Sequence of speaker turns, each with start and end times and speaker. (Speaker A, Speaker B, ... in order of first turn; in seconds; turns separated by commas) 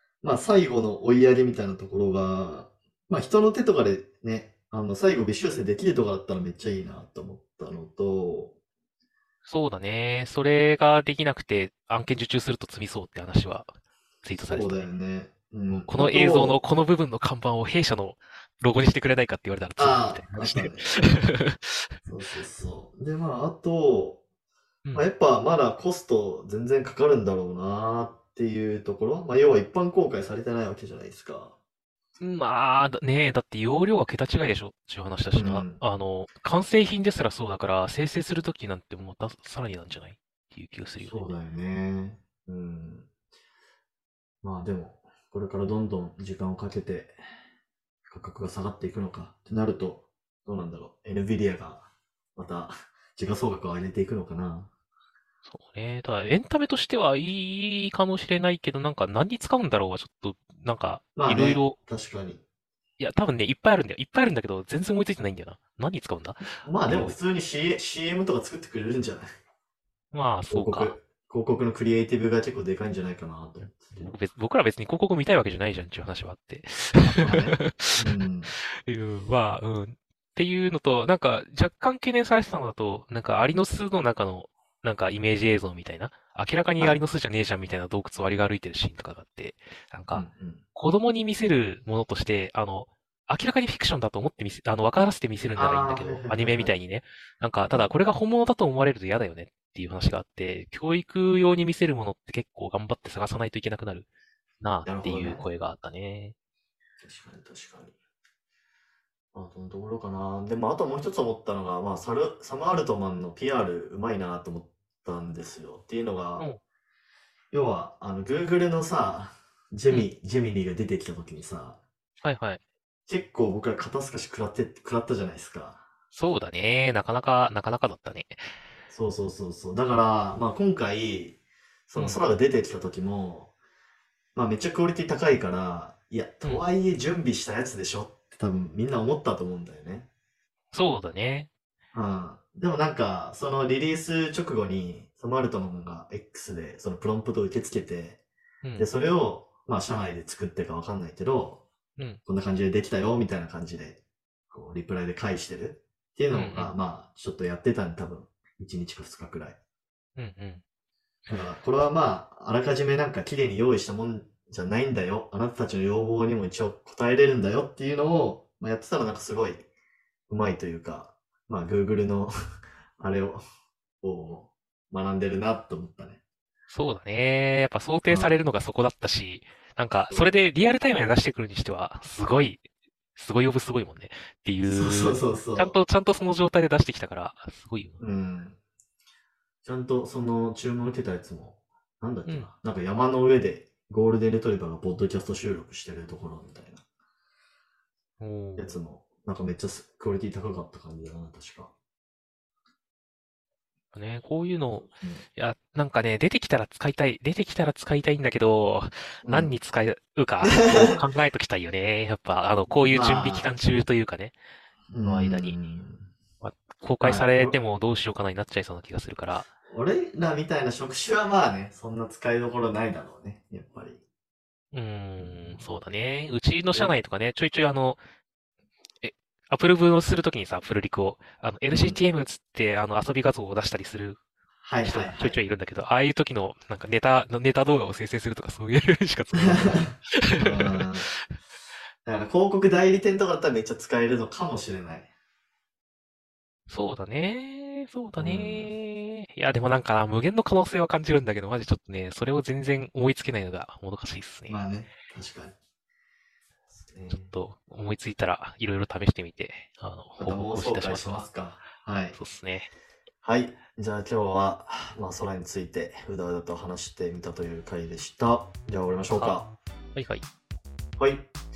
Speaker A: 0.2-8.5, Speaker B: 9.4-13.7, Speaker B: 14.2-14.9, Speaker A: 14.4-16.6, Speaker B: 15.7-21.8, Speaker A: 19.8-20.9, Speaker A: 22.0-24.2, Speaker A: 24.9-31.5, Speaker B: 32.2-41.3, Speaker A: 35.3-35.8, Speaker A: 41.0-43.1, Speaker A: 44.4-47.1, Speaker A: 48.1-54.7, Speaker B: 55.5-61.8, Speaker A: 61.1-62.4, Speaker B: 63.0-67.2, Speaker A: 66.6-69.3, Speaker B: 70.1-70.9, Speaker A: 70.5-74.1, Speaker B: 74.0-78.1, Speaker A: 77.0-78.5, Speaker B: 78.8-104.1, Speaker A: 90.1-90.6, Speaker A: 95.5-96.7, Speaker B: 104.6-106.3, Speaker A: 104.8-105.5, Speaker A: 107.0-107.9, Speaker A: 109.3-116.5, Speaker A: 117.5-121.8, Speaker B: 122.2-122.6, Speaker A: 123.1-125.8, Speaker B: 126.1-128.4, Speaker A: 128.9-131.4, Speaker A: 131.9-133.5, Speaker B: 131.9-132.2, Speaker A: 134.3-140.1, Speaker B: 140.7-141.5, Speaker A: 141.9-148.2, Speaker B: 148.6-148.9, Speaker A: 148.8-151.6, Speaker A: 152.2-154.0, Speaker A: 154.5-159.6, Speaker B: 156.3-156.7, Speaker B: 160.2-160.6, Speaker A: 161.3-169.7, Speaker A: 170.3-172.3, Speaker A: 173.0-173.4, Speaker A: 174.0-176.2, Speaker B: 176.7-182.6, Speaker A: 178.1-178.4, Speaker B: 183.2-188.0, Speaker A: 184.6-185.8, Speaker A: 188.0-188.6, Speaker A: 189.6-196.8, Speaker B: 198.2-198.8, Speaker A: 198.6-201.7, Speaker B: 203.9-214.3, Speaker A: 204.9-205.2, Speaker A: 209.2-209.5, Speaker A: 210.4-211.0, Speaker A: 212.7-213.5, Speaker A: 214.9-216.1, Speaker B: 215.0-215.6, Speaker B: 216.4-219.5, Speaker A: 217.0-217.5, Speaker A: 219.6-224.0, Speaker B: 224.7-228.0, Speaker A: 225.2-225.6, Speaker B: 229.0-234.2, Speaker A: 231.7-232.0, Speaker A: 234.6-235.4, Speaker B: 234.8-241.3, Speaker A: 239.4-241.1, Speaker A: 242.0-245.1, Speaker B: 246.7-254.6, Speaker A: 248.2-248.7, Speaker A: 254.5-255.5, Speaker A: 256.7-257.3, Speaker B: 257.1-261.2, Speaker A: 260.2-262.2, Speaker B: 262.1-262.7, Speaker A: 263.2-269.5, Speaker B: 269.1-269.4, Speaker B: 269.9-270.2, Speaker A: 271.0-271.3